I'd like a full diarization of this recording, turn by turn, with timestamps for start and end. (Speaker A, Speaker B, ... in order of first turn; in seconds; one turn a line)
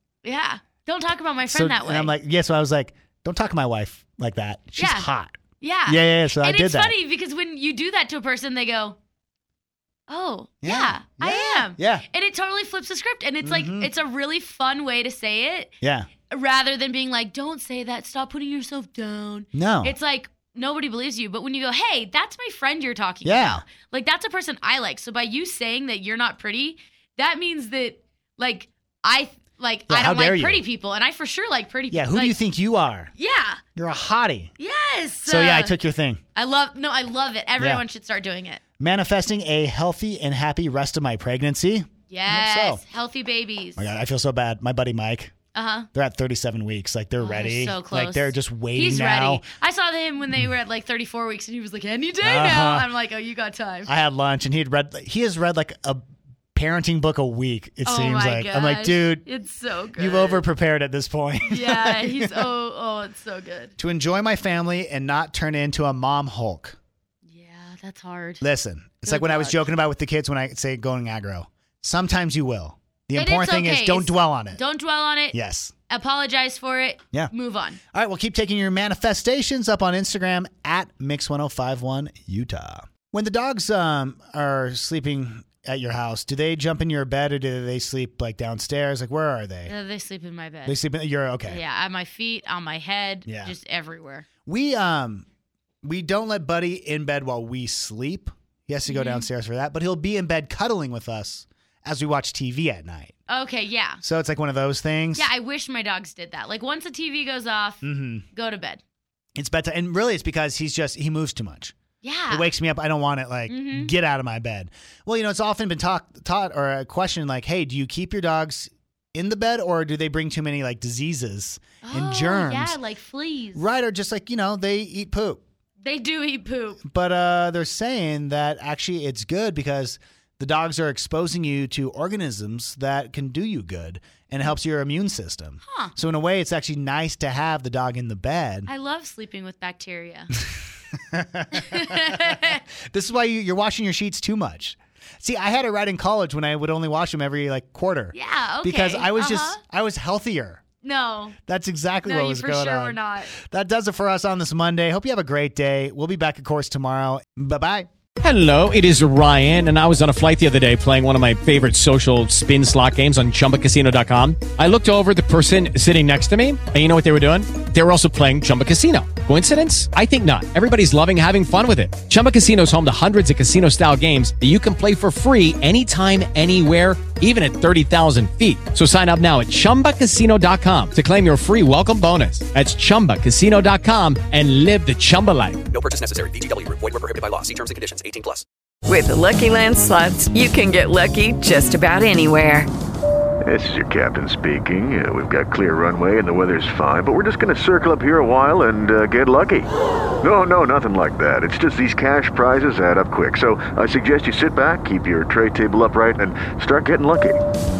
Speaker A: 0.2-2.2
Speaker B: 1.5-7.0
Speaker A: 4.8-5.1
Speaker A: 5.6-9.0
Speaker A: 10.1-15.7
Speaker B: 10.6-12.1
Speaker B: 13.4-13.9
Speaker B: 15.8-16.1
Speaker A: 16.3-32.4
Speaker B: 19.5-19.9
Speaker B: 23.2-23.6
Speaker B: 29.9-30.6
Speaker B: 31.9-33.1
Speaker A: 33.2-33.6
Speaker B: 33.8-34.5
Speaker A: 34.6-35.7
Speaker B: 35.3-36.2
Speaker A: 36.4-38.6
Speaker B: 37.6-37.8
Speaker B: 38.8-42.8
Speaker A: 42.1-43.8
Speaker B: 43.8-45.3
Speaker A: 45.5-45.9
Speaker B: 45.9-49.5
Speaker A: 47.2-53.9
Speaker B: 52.2-52.9
Speaker B: 53.9-56.0
Speaker B: 56.5-59.2
Speaker A: 57.9-60.4
Speaker B: 60.0-62.5
Speaker A: 61.4-63.7
Speaker B: 63.8-66.8
Speaker A: 67.3-68.4
Speaker B: 68.4-74.6
Speaker A: 69.0-69.7
Speaker A: 73.2-75.4
Speaker B: 75.3-75.7
Speaker A: 75.9-77.8
Speaker B: 77.9-89.7
Speaker A: 89.7-90.8
Speaker B: 90.7-91.6
Speaker A: 91.4-94.3
Speaker B: 93.3-93.5
Speaker B: 94.5-95.3
Speaker B: 95.8-103.2
Speaker A: 98.9-99.3
Speaker A: 103.3-104.0
Speaker B: 104.0-105.3
Speaker A: 105.2-108.8
Speaker B: 107.8-108.2
Speaker B: 109.3-111.8
Speaker A: 112.0-112.5
Speaker B: 112.3-122.8
Speaker A: 113.5-114.0
Speaker A: 121.8-123.7
Speaker B: 123.5-125.4
Speaker A: 125.8-126.8
Speaker B: 126.8-138.7
Speaker A: 135.7-135.9
Speaker A: 138.7-140.3
Speaker B: 140.4-150.6
Speaker A: 141.5-142.6
Speaker A: 148.1-149.6
Speaker A: 150.8-151.4
Speaker B: 151.5-157.9
Speaker A: 152.1-153.3
Speaker C: 158.2-185.8
Speaker D: 185.8-188.4
Speaker E: 188.9-192.7
Speaker F: 193.5-199.7
Speaker D: 193.5-197.7
Speaker D: 198.4-199.6
Speaker F: 200.2-207.3
Speaker D: 200.3-207.2